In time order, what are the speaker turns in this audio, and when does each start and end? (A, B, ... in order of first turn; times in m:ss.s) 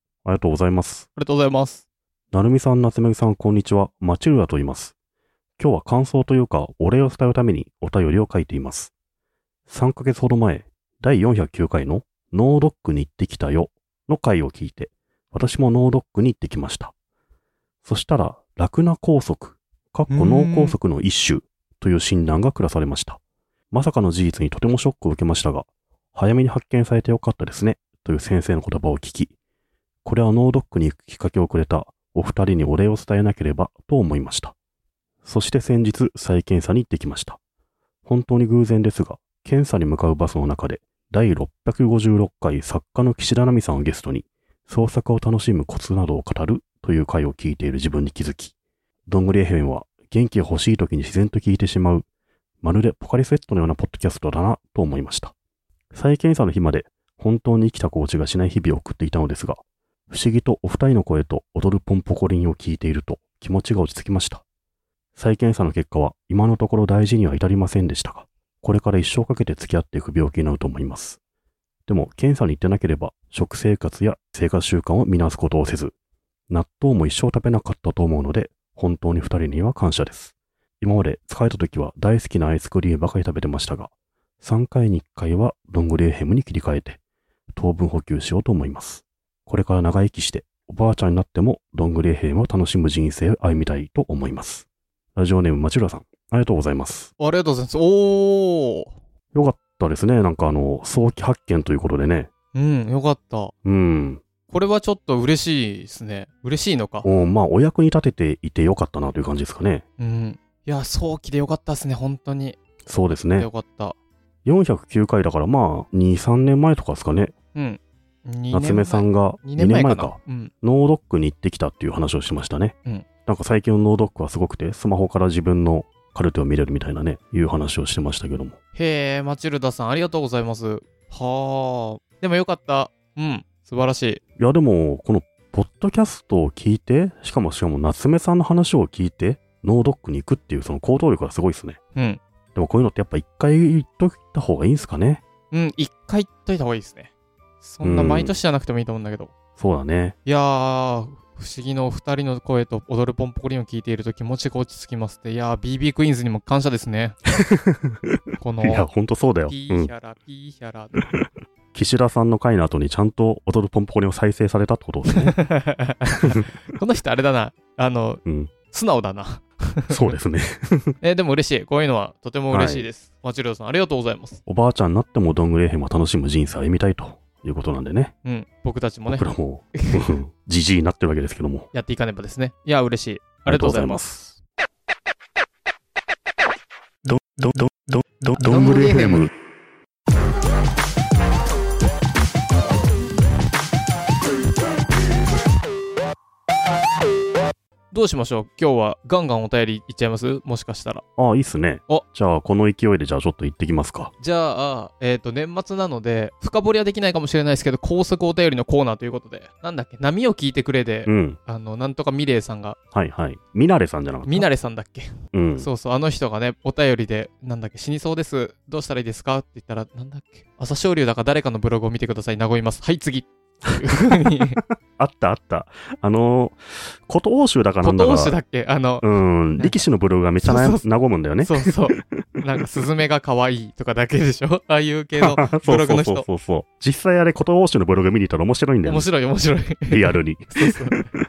0:00.2-0:01.1 A
0:01.2-0:01.8 B
0:02.3-0:04.9 A
0:05.6-0:08.9 A
0:09.7-0:16.9 A
0:17.8-0:23.2 A
0:20.1-0:20.8 B
0:23.7-0:29.3 A
0:30.0-0:34.5 A
0:35.2-0:37.4 A
0:38.0-0:48.5 A
0:49.1-0:52.0 A
0:52.6-0:55.3 A
0:55.9-1:04.4 A
1:05.1-1:11.2 A
1:11.9-1:15.9 A
1:16.5-1:27.0 A
1:27.5-1:37.1 A
1:37.2-1:38.9 B
1:39.3-1:42.3 A
1:42.5-1:43.5 B
1:43.6-1:44.2 A
1:44.5-1:47.1 B
1:47.0-1:49.8 A
1:50.0-1:52.6 B
1:52.8-1:53.5 A
1:53.1-1:54.0 B
1:54.4-1:57.3 A
1:57.5-2:00.5 B
1:58.5-2:08.6 A
2:08.7-2:14.2 B
2:14.4-2:21.8 A
2:21.9-2:22.2 B
2:22.5-2:25.2 A
2:25.5-2:27.1 B
2:27.6-2:29.3 B
2:27.8-2:28.4 A
2:29.6-2:30.2 A
2:30.2-2:37.2 B
2:37.4-2:39.9 A
2:38.4-2:38.9 B
2:39.5-2:40.9 B
2:41.2-2:45.4 A
2:45.1-2:50.1 B
2:48.2-2:48.5 A
2:49.9-2:50.9 A
2:51.0-2:54.4 B
2:52.5-2:52.9 A
2:54.4-2:58.1 A
2:58.2-3:00.1 B
2:59.1-3:01.7 A
3:01.7-3:04.0 B
3:03.4-3:04.3 A
3:07.0-3:09.3 A
3:08.4-3:09.2 B
3:17.9-3:21.0 B
3:21.2-3:24.1 A
3:24.2-3:32.8 B
3:31.0-3:31.4 A
3:32.9-3:34.5 A
3:34.3-3:44.6 B
3:35.3-3:35.7 A
3:44.9-3:48.4 A
3:47.8-3:49.0 B
3:49.0-3:51.7 A
3:49.6-3:49.8 B
3:50.4-3:50.8 B
3:51.4-3:56.3 B
3:55.2-3:59.1 A
3:58.8-4:01.1 B
3:59.9-4:00.8 A